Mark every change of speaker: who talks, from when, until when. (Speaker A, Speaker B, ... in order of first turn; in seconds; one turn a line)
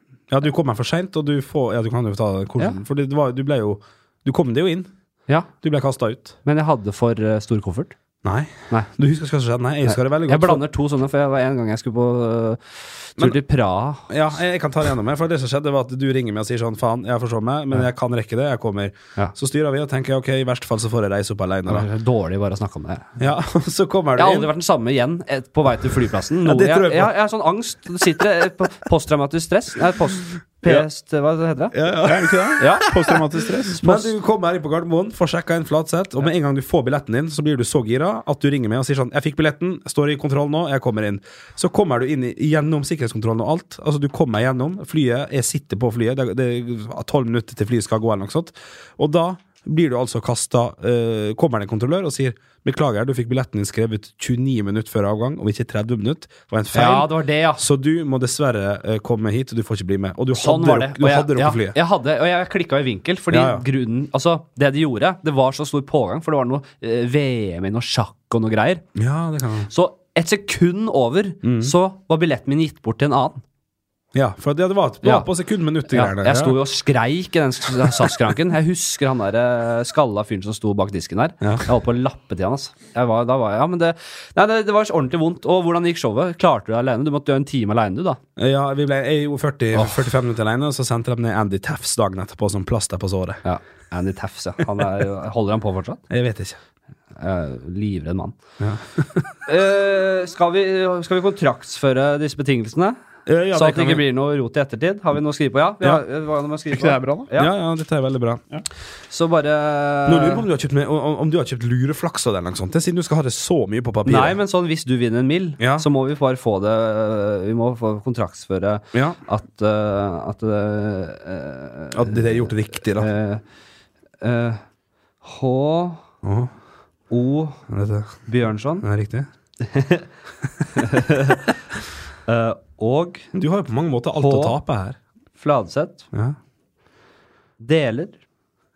Speaker A: 0.3-4.9
Speaker A: 5.6-6.4
Speaker B: 6.4-8.0
Speaker A: 8.2-10.6
Speaker B: 9.8-14.1
Speaker A: 14.1-21.9
Speaker B: 21.7-23.1
Speaker A: 23.2-24.5
Speaker B: 24.2-31.8
Speaker A: 26.4-27.1
Speaker A: 31.7-32.8
Speaker C: 32.0-33.8
Speaker B: 32.6-32.9
Speaker B: 33.7-34.1
Speaker A: 33.8-61.8
Speaker B: 56.7-57.6
Speaker B: 60.3-68.8
Speaker A: 63.3-63.6
Speaker A: 69.0-69.7
Speaker B: 69.7-73.4
Speaker A: 71.4-71.7
Speaker A: 74.1-76.6
Speaker B: 75.0-75.3
Speaker B: 75.9-88.2
Speaker A: 77.9-78.1
Speaker A: 88.4-93.4
Speaker B: 93.4-96.0
Speaker A: 96.1-96.6
Speaker B: 97.2-98.4
Speaker A: 98.6-99.4
Speaker B: 99.5-103.0
Speaker A: 103.3-104.0
Speaker B: 103.5-107.5
Speaker C: 106.7-107.3
Speaker A: 107.3-108.4
Speaker B: 109.1-110.5
Speaker A: 110.0-114.4
Speaker B: 114.0-123.4
Speaker A: 115.6-115.9
Speaker A: 121.9-123.1
Speaker B: 124.2-124.6
Speaker B: 125.2-126.0
Speaker A: 126.2-126.5
Speaker B: 127.1-127.6
Speaker A: 127.7-128.2
Speaker B: 128.3-128.8
Speaker A: 128.8-129.3
Speaker B: 129.6-130.1
Speaker B: 130.7-131.5
Speaker B: 132.3-133.3
Speaker A: 133.3-135.0
Speaker B: 134.2-134.6
Speaker B: 135.4-136.1
Speaker B: 137.6-138.2